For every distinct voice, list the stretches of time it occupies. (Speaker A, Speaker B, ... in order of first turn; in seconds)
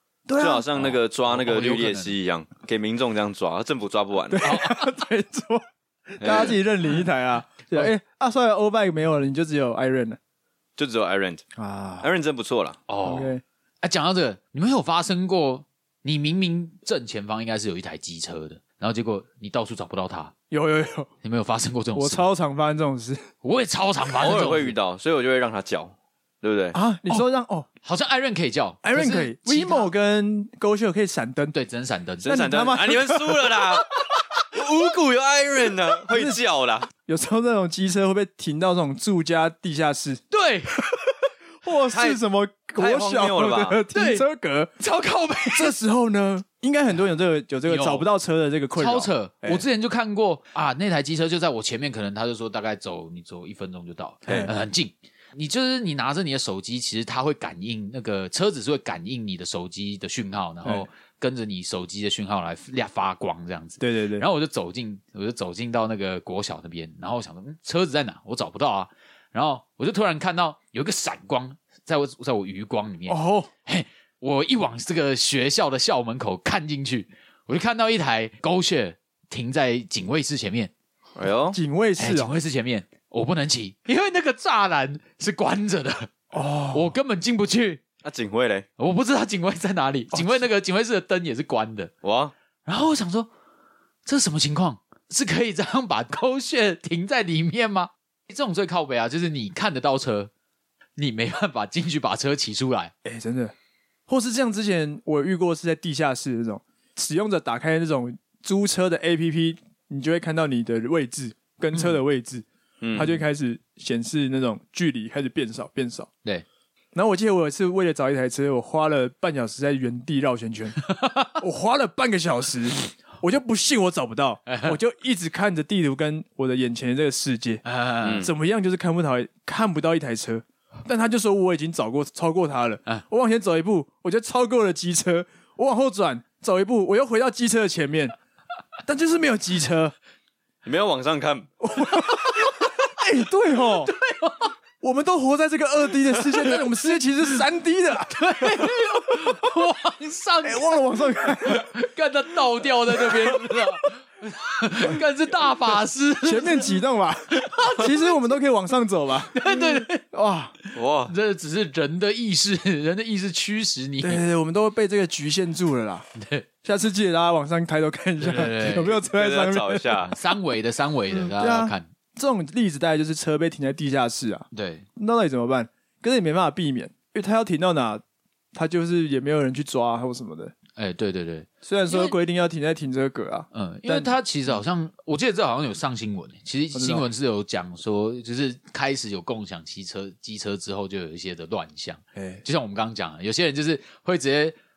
Speaker A: 0.3-0.7, 4.3-10.2, 11.6-12.1, 13.0-13.4, 20.5-21.1, 21.9-23.2, 26.7-27.7, 28.8-31.5, 32.2-33.8, 36.1-36.4, 37.1-40.2, 41.6-44.7, 45.5-49.6, 54.3-54.5, 63.8-64.3, 73.1-73.5, 81.5-82.3, 86.3-86.9, 90.1-90.4, 103.0-103.5, 104.1-116.1, 116.9-120.8, 121.4-127.6, 128.2-138.2, 138.8-139.9, 141.6-143.9, 144.8-149.5, 150.4-151.7, 153.0-153.5, 156.2-160.6, 164.0-166.1, 166.6-170.0, 171.1-178.0, 178.5-180.5, 181.6-184.1, 186.7-187.1, 192.2-192.4
Speaker B: 0.4-4.4, 6.2-6.6, 10.8-11.4, 12.0-12.8, 24.2-26.8, 32.2-34.0, 34.5-36.9, 41.9-42.2, 42.8-43.8, 81.2-81.6, 88.0-88.7, 92.0-92.3, 112.8-113.2, 128.0-128.3, 140.6-141.5, 160.7-161.1, 169.0-170.2
Speaker C: 0.8-2.1, 4.4-4.9, 12.9-20.3, 21.2-22.3, 23.4-24.7, 27.8-29.9, 31.5-32.3, 40.3-40.8, 43.9-44.2, 44.8-45.8, 47.7-48.1, 48.8-80.7, 82.0-86.1, 86.7-87.8, 88.8-91.9, 92.7-93.3, 94.1-100.3, 101.0-102.9, 120.8-121.4, 124.5-124.8, 127.7-128.3, 142.1-142.7, 143.7-144.5, 146.2-147.3, 148.1-156.8, 157.3-158.2, 159.3-160.0, 161.1-164.2, 166.2-166.4, 168.2-169.0, 170.1-171.9, 174.5-174.9, 180.8-182.2, 183.5-194.6